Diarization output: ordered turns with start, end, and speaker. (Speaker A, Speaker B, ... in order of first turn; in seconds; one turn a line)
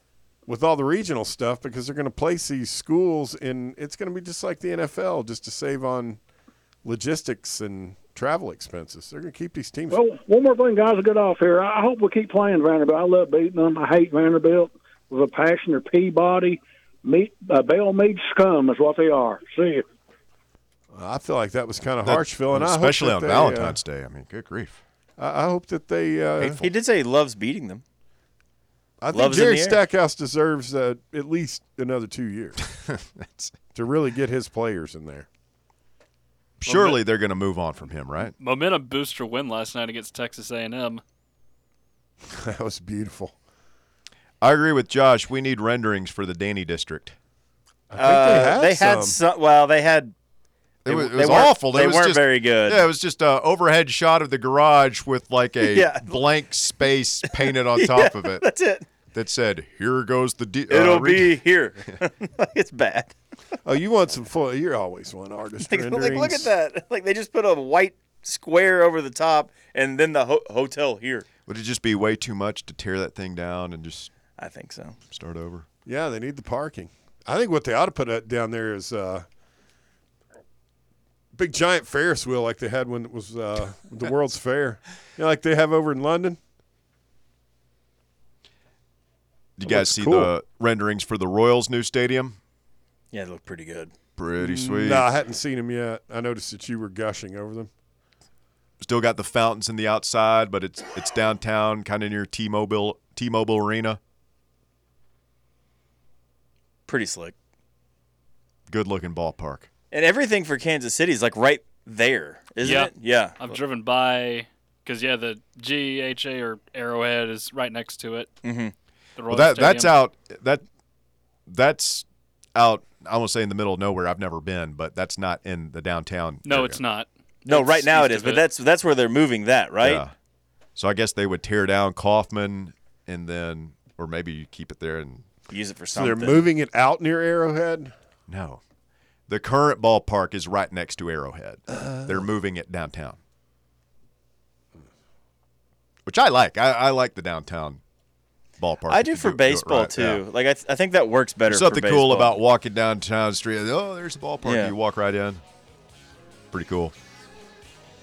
Speaker A: 0.5-6.2
Speaker A: 6.8-10.0
Speaker B: 9.9-19.8
Speaker A: 20.9-23.8
Speaker C: 22.0-24.8
Speaker A: 25.2-26.6
Speaker D: 26.4-27.8
Speaker A: 29.0-32.6
Speaker D: 29.1-29.8
Speaker C: 32.8-33.5
Speaker A: 33.7-35.3
Speaker C: 36.6-38.3
Speaker A: 36.7-37.0
Speaker E: 38.4-41.0
Speaker A: 42.2-43.3
Speaker C: 44.4-47.1
Speaker A: 47.9-49.2
Speaker D: 48.0-50.1
Speaker C: 50.8-58.4
Speaker D: 50.9-52.9
Speaker D: 55.6-56.2
Speaker D: 57.2-58.8
Speaker C: 59.1-61.4
Speaker D: 60.7-63.1
Speaker A: 63.6-66.5
Speaker D: 65.6-71.2
Speaker C: 71.5-74.1
Speaker D: 74.4-75.0
Speaker C: 75.1-75.7
Speaker A: 75.8-79.2
Speaker A: 81.3-86.4
Speaker C: 89.6-92.4
Speaker A: 89.7-90.3
Speaker D: 93.1-93.9
Speaker C: 94.2-95.0
Speaker A: 94.4-97.7
Speaker C: 98.8-104.0
Speaker D: 106.9-107.3
Speaker C: 108.7-109.7
Speaker D: 109.9-113.5
Speaker E: 112.6-118.3
Speaker D: 118.4-118.7
Speaker E: 119.2-120.0
Speaker C: 119.3-120.6
Speaker C: 121.5-126.8
Speaker E: 126.5-128.4
Speaker D: 127.4-130.0
Speaker C: 129.8-130.1
Speaker C: 130.8-135.3
Speaker D: 135.5-136.5
Speaker A: 135.9-137.9
Speaker C: 138.3-138.6
Speaker C: 139.3-143.2
Speaker A: 141.7-142.2
Speaker C: 146.1-147.8
Speaker C: 148.6-150.2
Speaker D: 148.9-152.3
Speaker C: 151.5-155.4
Speaker D: 154.4-154.7
Speaker C: 156.5-156.9